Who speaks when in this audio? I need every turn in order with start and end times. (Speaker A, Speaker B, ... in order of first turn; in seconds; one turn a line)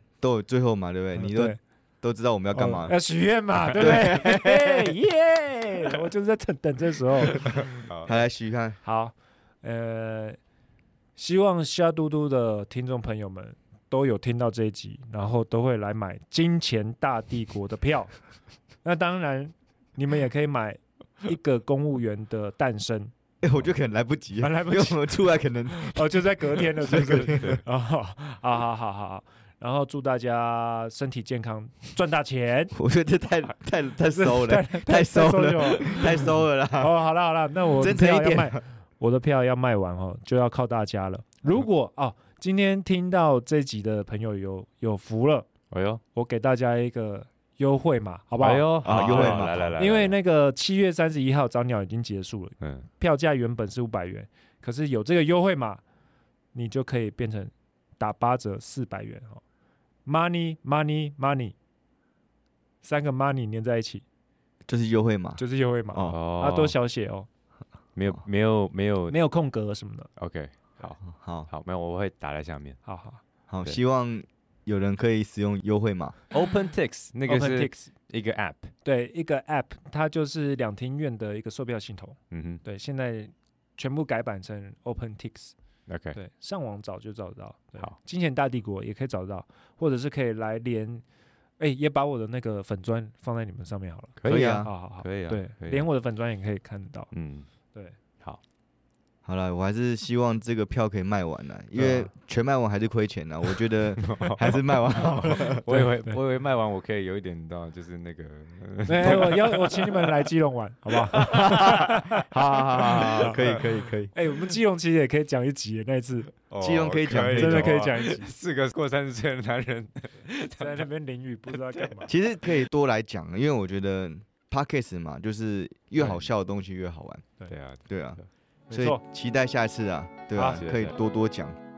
Speaker A: 0.2-2.9
Speaker B: 1.1-1.6
Speaker B: 2.5-7.8
Speaker A: 3.7-4.9
Speaker C: 7.8-8.1
Speaker A: 8.0-8.8
Speaker B: 8.8-10.4
Speaker B: 11.2-18.1
Speaker B: 18.8-23.1
Speaker A: 23.4-27.6
Speaker B: 24.4-25.1
Speaker B: 25.7-32.7
Speaker A: 32.7-36.9
Speaker B: 34.0-45.5
Speaker A: 37.7-38.6
Speaker C: 45.7-46.0
Speaker B: 46.1-55.8
Speaker C: 48.4-50.1
Speaker A: 48.8-49.7
Speaker C: 52.6-52.9
Speaker B: 56.5-59.4
Speaker B: 60.0-61.5
Speaker B: 62.8-64.0
Speaker A: 64.7-65.4
Speaker B: 65.4-67.3
Speaker C: 66.0-66.8
Speaker C: 67.9-69.2
Speaker B: 69.1-70.1
Speaker C: 70.2-72.8
Speaker A: 71.1-71.5
Speaker B: 72.8-73.2
Speaker A: 73.5-76.2
Speaker C: 76.3-78.7
Speaker B: 77.3-77.9
Speaker B: 78.8-85.5
Speaker C: 82.3-82.6
Speaker C: 85.9-86.2
Speaker B: 86.1-91.0
Speaker B: 91.6-97.1
Speaker C: 94.2-95.8
Speaker A: 94.3-94.7
Speaker C: 97.1-97.5
Speaker A: 99.2-105.6
Speaker B: 101.8-102.1
Speaker C: 104.0-104.6
Speaker C: 105.2-110.2
Speaker B: 105.7-106.2
Speaker B: 108.8-113.6
Speaker A: 111.1-114.1
Speaker C: 112.9-113.6
Speaker B: 114.1-116.3
Speaker C: 116.5-120.8
Speaker A: 116.6-117.7
Speaker B: 117.1-118.3
Speaker B: 120.5-122.1
Speaker C: 121.5-122.6
Speaker A: 122.1-127.2
Speaker C: 126.0-126.3
Speaker C: 127.5-128.2
Speaker A: 127.9-128.2
Speaker B: 128.7-129.0
Speaker A: 128.7-131.6
Speaker B: 130.3-130.6
Speaker C: 130.6-130.9